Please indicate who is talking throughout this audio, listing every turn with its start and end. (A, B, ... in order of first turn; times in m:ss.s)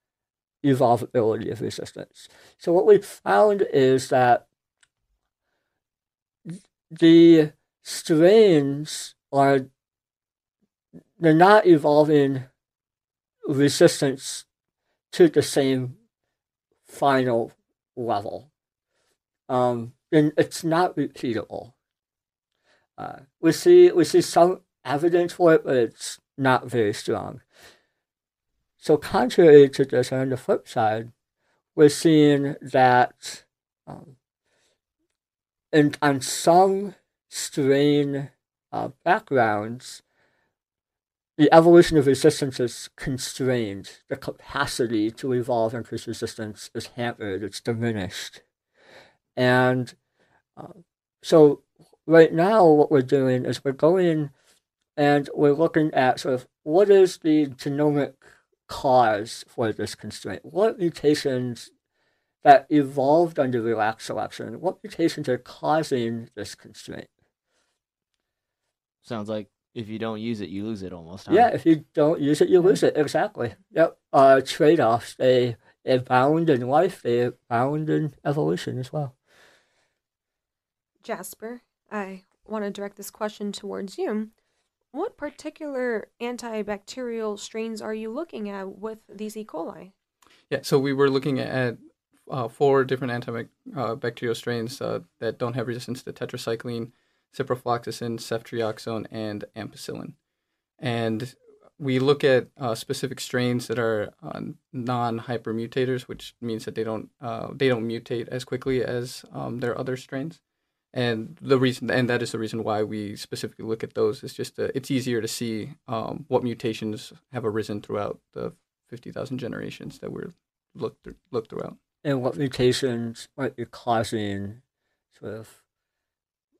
0:00.6-0:04.4 A
0:06.4-0:09.7 A
0:11.2-0:12.5 A
0:13.4-0:14.5 A
0:15.1-0:16.0 A
0:16.9-0:18.5 A
0:19.5-0:21.7 A
0:23.0-0:27.4 A
0:28.8-0:31.1 A
0:31.8-0:34.2 A
0:35.7-0:40.0 A
0:41.4-0:48.4 A
0:49.4-0:50.0 A
0:50.6-0:54.3 A
0:55.0-1:01.7 A
1:02.4-1:07.1 A
1:09.0-1:11.5 B
1:11.3-1:19.2 A
1:21.0-1:24.3 C
1:24.9-1:29.9 C
1:30.5-1:40.2 D
1:40.8-1:50.4 D
1:50.9-2:01.8 D
2:02.0-2:04.6 A
2:05.1-2:05.6 A